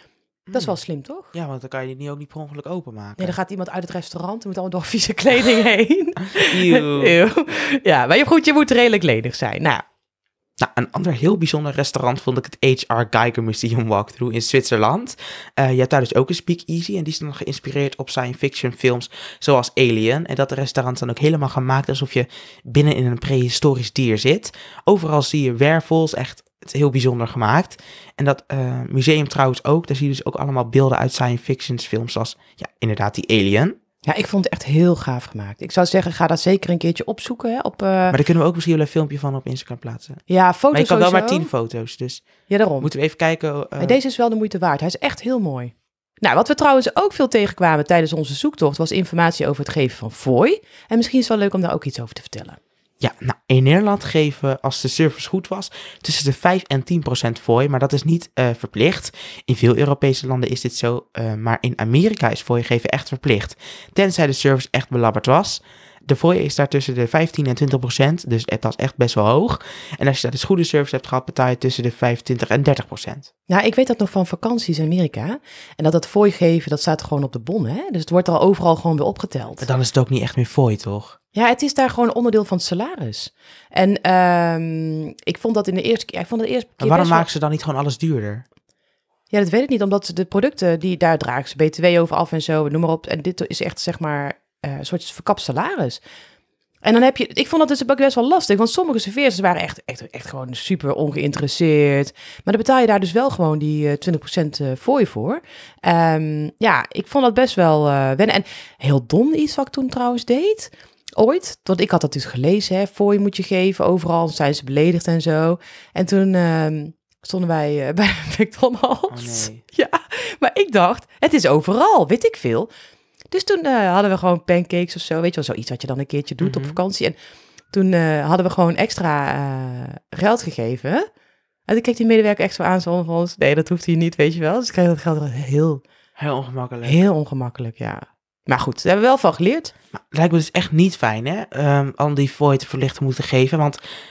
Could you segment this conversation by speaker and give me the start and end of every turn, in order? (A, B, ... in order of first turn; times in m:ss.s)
0:00.5-0:00.8 A
0:00.5-0:01.3 B
0:01.3-0:03.4 A
0:03.2-0:09.8 B
0:06.4-0:07.2 A
0:10.6-0:33.8 A
0:34.0-0:38.2 B
0:38.1-0:42.3 A
0:40.3-0:41.5 B
0:42.5-0:42.9 B
0:42.8-0:44.0 A
0:43.8-0:52.6 B
0:53.0-1:13.3 A
1:13.5-1:19.7 B
1:19.6-1:21.2 A
1:21.3-1:27.3 B
1:26.8-1:28.4 A
1:29.3-1:36.0 B
1:36.8-2:02.7 B
1:59.1-1:59.6 A
2:03.3-2:07.2 B
2:06.4-2:06.8 A
2:07.7-2:11.1 B
2:11.7-2:15.8 B
2:16.2-2:17.0 A
2:16.8-2:19.7 B
2:19.9-2:23.8 A